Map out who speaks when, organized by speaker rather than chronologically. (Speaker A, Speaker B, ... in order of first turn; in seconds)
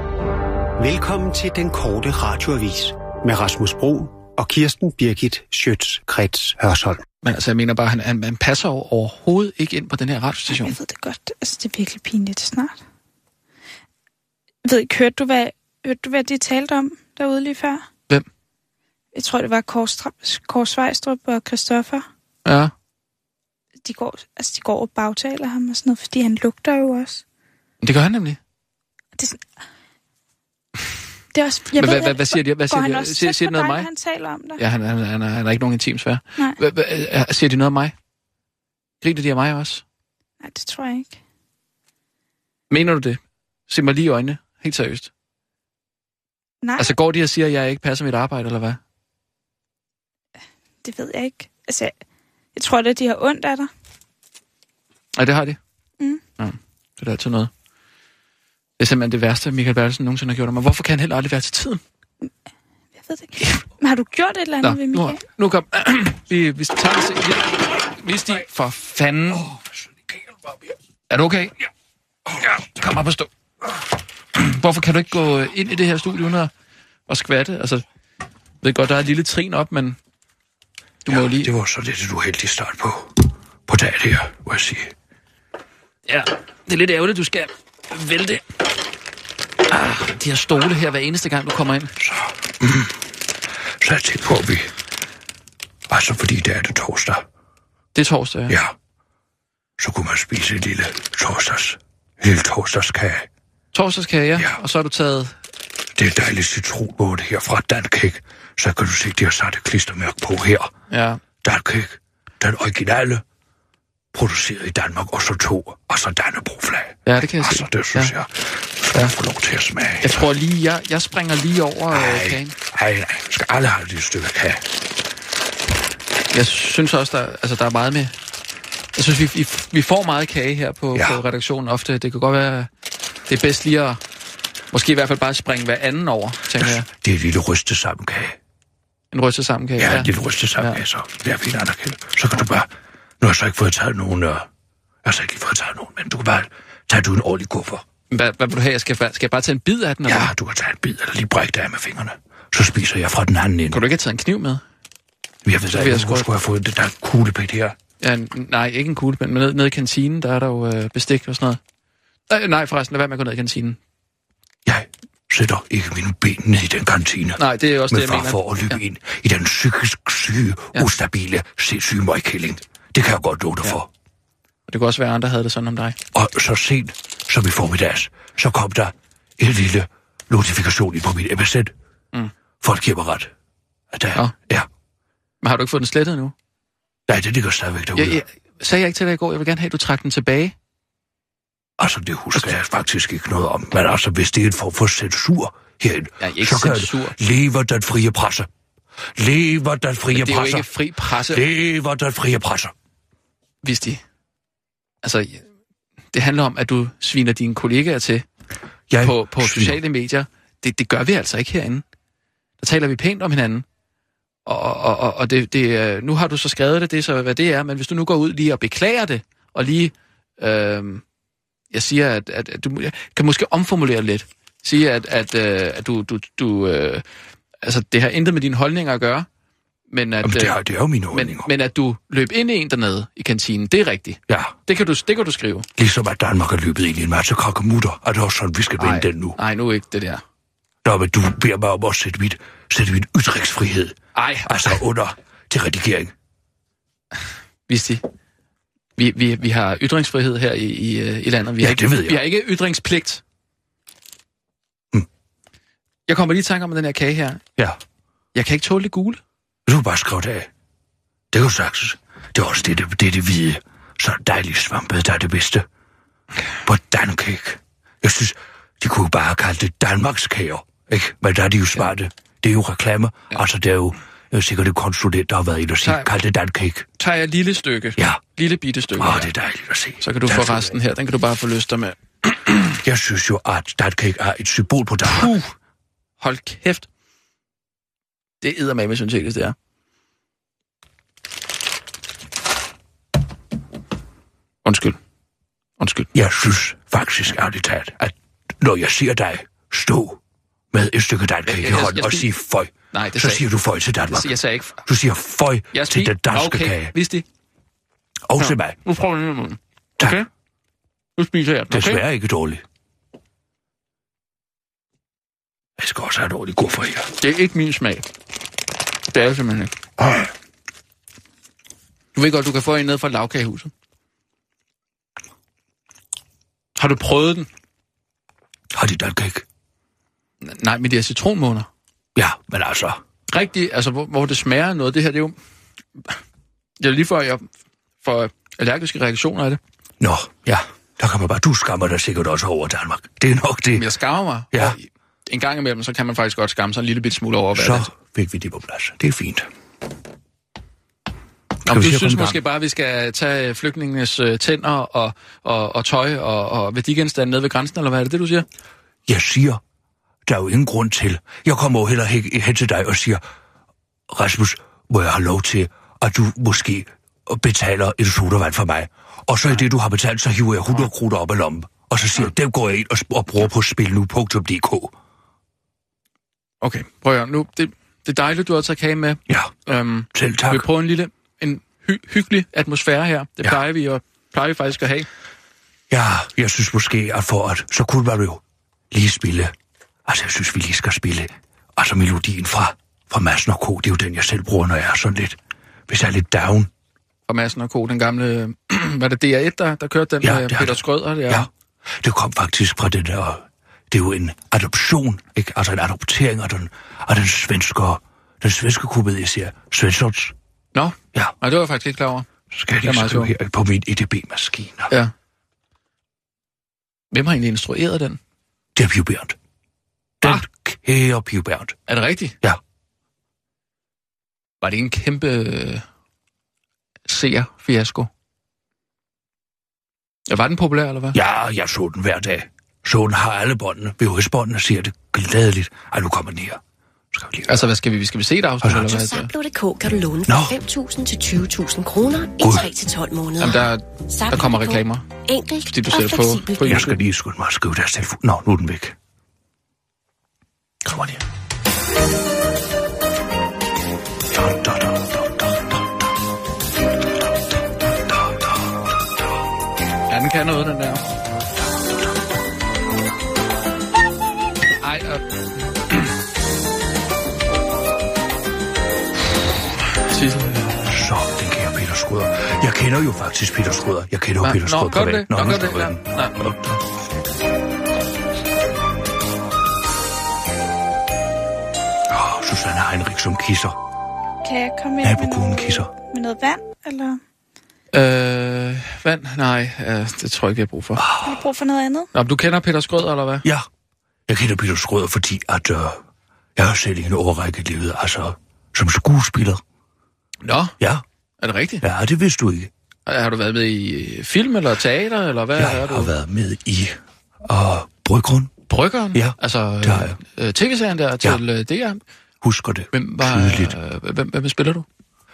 Speaker A: 0.8-7.0
Speaker B: 7.2-10.7, 22.4-22.7, 27.8-28.4, 31.8-33.9, 34.6-37.9, 39.0-39.8, 42.7-45.1, 46.8-48.8, 55.2-55.6, 56.4-57.5, 58.8-61.8, 64.6-69.5, 71.1-71.7, 72.4-73.3, 74.3-76.5, 77.1-77.8, 78.6-80.0, 81.0-81.5, 86.1-88.4, 89.7-91.9, 97.9-98.5, 103.7-105.3, 110.9-111.2, 117.0-118.1, 120.0-122.5, 126.3-128.1, 128.9-132.7, 133.3-134.0, 134.7-136.9, 139.1-140.8, 148.1-150.3, 153.7-154.6, 155.7-156.3, 158.0-161.6, 162.3-163.8, 167.4-168.8, 174.7-176.0, 185.4-186.3, 187.9-190.5, 196.2-197.1, 200.1-201.4, 203.6-204.0, 205.0-205.4, 206.1-208.2, 209.0-211.8, 212.6-213.6, 214.4-221.0, 221.7-227.0, 227.6-229.2, 229.9-230.6, 231.1-235.7, 238.8-240.2, 244.1-244.6, 247.7-248.0, 249.0-253.2, 256.1-257.4, 258.3-259.2, 275.8-276.1, 277.0-279.3, 280.0-282.8, 285.1-285.5, 286.2-286.9, 288.4-289.5, 294.6-295.0, 295.8-296.1, 301.4-302.3, 302.9-303.4, 304.1-304.8, 305.7-307.2, 308.4-310.3, 311.2-312.0, 317.2-318.0, 319.1-319.7, 322.1-323.7, 326.8-327.5, 330.4-331.7, 333.3-335.3, 336.8-337.5, 338.0-339.6, 343.7-347.9, 351.6-358.4, 376.6-385.1, 397.3-401.5, 410.7-412.3, 412.8-413.3, 417.1-418.2, 421.9-422.3, 424.6-425.8, 427.1-428.1, 430.3-431.2, 437.5-439.3, 443.4-445.1, 445.7-447.0, 460.1-461.0, 464.8-465.2, 470.0-470.8, 474.4-476.3, 487.9-491.0, 492.1-493.5, 500.4-500.7, 501.4-501.8, 503.1-506.1, 508.7-512.0, 512.9-514.9
Speaker C: 10.5-12.8, 14.6-17.8, 19.1-22.1, 23.8-27.2, 29.2-29.4, 31.3-34.6, 40.4-41.2, 46.6-47.0, 50.8-51.9, 52.5-53.7, 63.0-65.2, 484.4-487.2, 491.2-492.1
Speaker D: 81.1-84.9, 92.0-93.0, 93.8-94.7, 95.9-97.2, 98.5-98.7, 99.8-103.3, 105.9-110.7, 111.4-113.2, 114.1-120.2, 121.9-124.7, 130.9-131.2, 136.5-138.4, 139.8-142.7, 143.2-144.5, 145.0-147.8, 150.0-153.8, 155.4-157.8, 164.6-173.9, 176.1-181.7, 182.6-183.3, 183.9-184.7, 187.1-188.2, 191.8-198.5, 199.2-200.7, 201.2-202.7, 208.9-209.8, 230.2-231.5, 234.3-234.6, 235.8-239.4, 240.8-246.1, 251.6-252.2, 259.6-260.5, 261.3-265.6, 266.6-276.9, 279.0-280.8, 282.8-285.3, 296.1-300.2, 300.7-306.9, 308.2-308.8, 310.0-310.2, 311.7-312.6, 315.8-317.1, 328.7-329.4, 332.1-333.0, 340.0-343.9, 347.5-349.5, 351.6-352.4, 359.1-359.6, 360.2-363.2, 364.1-374.9, 379.3-379.5, 380.1-380.7, 385.9-389.5, 390.1-396.7, 400.2-410.3, 412.5-414.9, 418.7-419.4, 420.2-421.8, 431.1-436.6, 437.1-437.6, 438.6-438.9, 440.3-440.6, 442.4-442.7, 446.6-448.9, 450.8-451.2, 454.3-456.1, 457.2-459.0, 461.6-462.1, 470.9-476.8, 482.1-483.8, 485.0-485.9, 491.0-491.4, 494.3-496.0, 496.6-499.6, 501.8-502.7, 505.6-508.6, 509.1-510.2, 512.4-513.7
Speaker E: 438.8-446.8